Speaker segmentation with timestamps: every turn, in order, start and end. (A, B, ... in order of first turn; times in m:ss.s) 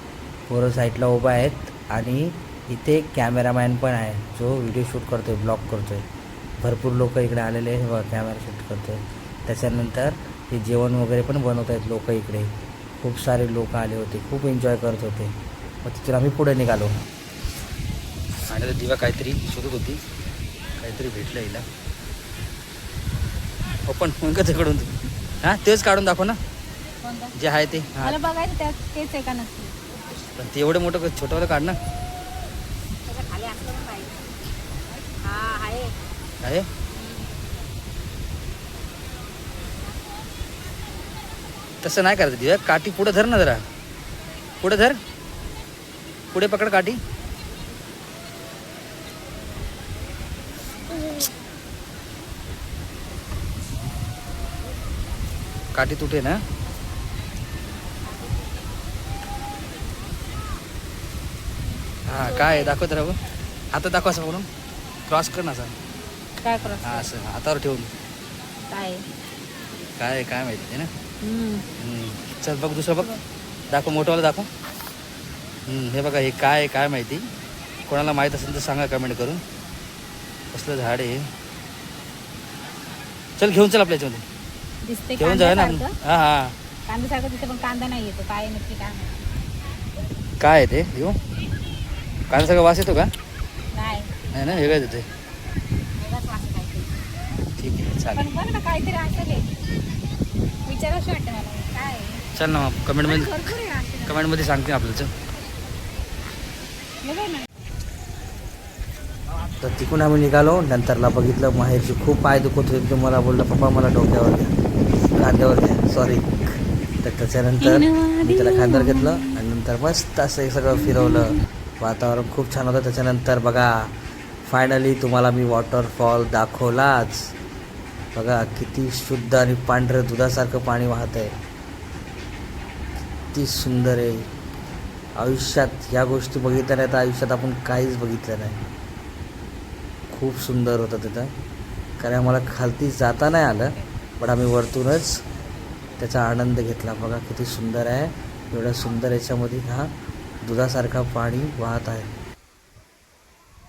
0:00.5-0:06.1 A
0:06.6-0:17.0 A
0:18.5-0:20.0 A
0:20.8-0:21.6 A
0:23.8-0:24.9 A
0:25.4-0:26.4 A
0:27.0-0:27.3 B
0:27.4-0:28.2 A
0:28.0-0:29.7 B
0:30.4-0:31.8 A
0:33.0-0:34.3 B
0:35.2-0:35.9 B
0:36.4-0:36.7 A
0:36.9-0:37.3 B
0:41.8-0:43.6 A
0:44.6-0:45.0 A
0:46.3-0:47.0 A
0:55.7-0:56.4 A
1:02.1-1:03.2 A
1:02.2-1:02.8 B
1:03.7-1:04.5 A
1:05.1-1:05.7 A
1:06.4-1:07.1 B
1:06.6-1:07.9 A
1:08.7-1:09.0 B
1:10.0-1:10.9 A
1:11.2-1:11.6 B
1:11.8-1:13.1 A
1:13.7-1:14.5 A
1:15.7-1:17.3 A
1:17.9-1:19.4 A
1:20.5-1:21.3 A
1:23.4-1:24.2 A
1:24.8-1:25.9 B
1:25.2-1:26.5 A
1:26.9-1:29.2 B
1:30.4-1:31.2 A
1:32.3-1:33.1 A
1:33.7-1:34.2 B
1:34.3-1:35.1 A
1:36.0-1:37.0 B
1:37.6-1:38.3 A
1:38.1-1:39.5 B
1:40.6-1:42.2 B
1:42.3-1:43.5 A
1:43.0-1:44.2 B
1:44.0-1:45.1 A
1:47.0-1:47.4 B
1:49.6-1:54.5 A
1:55.1-1:56.4 A
1:57.0-2:03.7 A
1:57.6-1:59.4 B
2:00.8-2:01.4 B
2:04.4-2:07.3 A
2:08.1-2:11.3 A
2:13.3-2:14.2 A
2:15.2-2:18.6 A
2:20.1-2:21.3 A
2:22.0-2:25.2 A
2:26.0-2:29.9 A
2:30.4-2:32.1 A